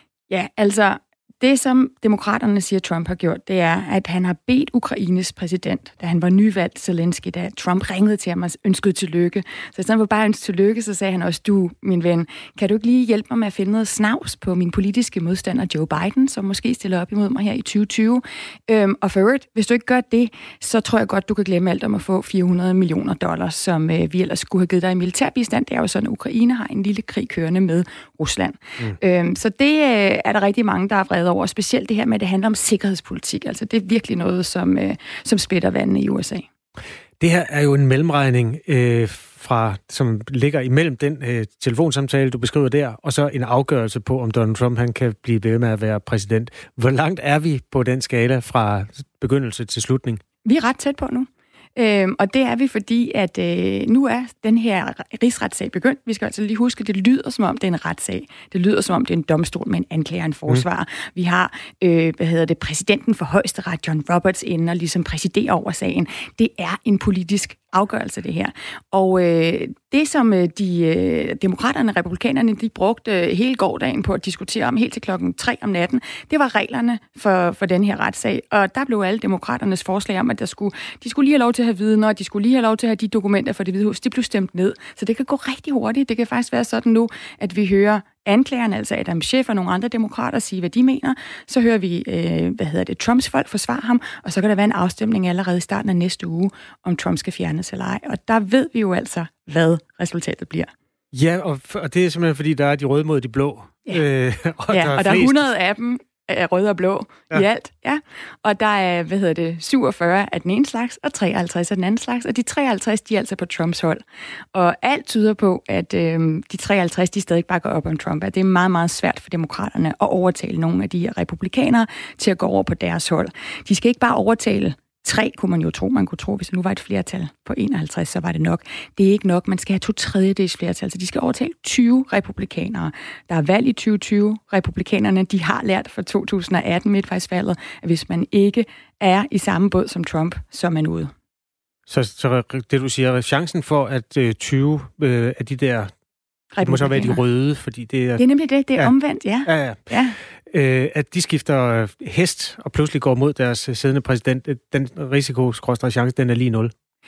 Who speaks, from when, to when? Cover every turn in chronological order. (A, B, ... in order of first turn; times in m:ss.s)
0:00.3-0:36.5 A
0:37.2-0:50.2 B
0:50.4-1:40.7 A
1:41.1-1:45.5 B
1:44.7-1:54.0 A
1:54.5-2:21.1 A
2:21.9-2:25.9 B
2:26.5-2:27.2 A
2:26.6-2:28.2 B
2:28.2-2:30.2 A
2:29.4-2:29.8 B
2:30.5-2:36.7 B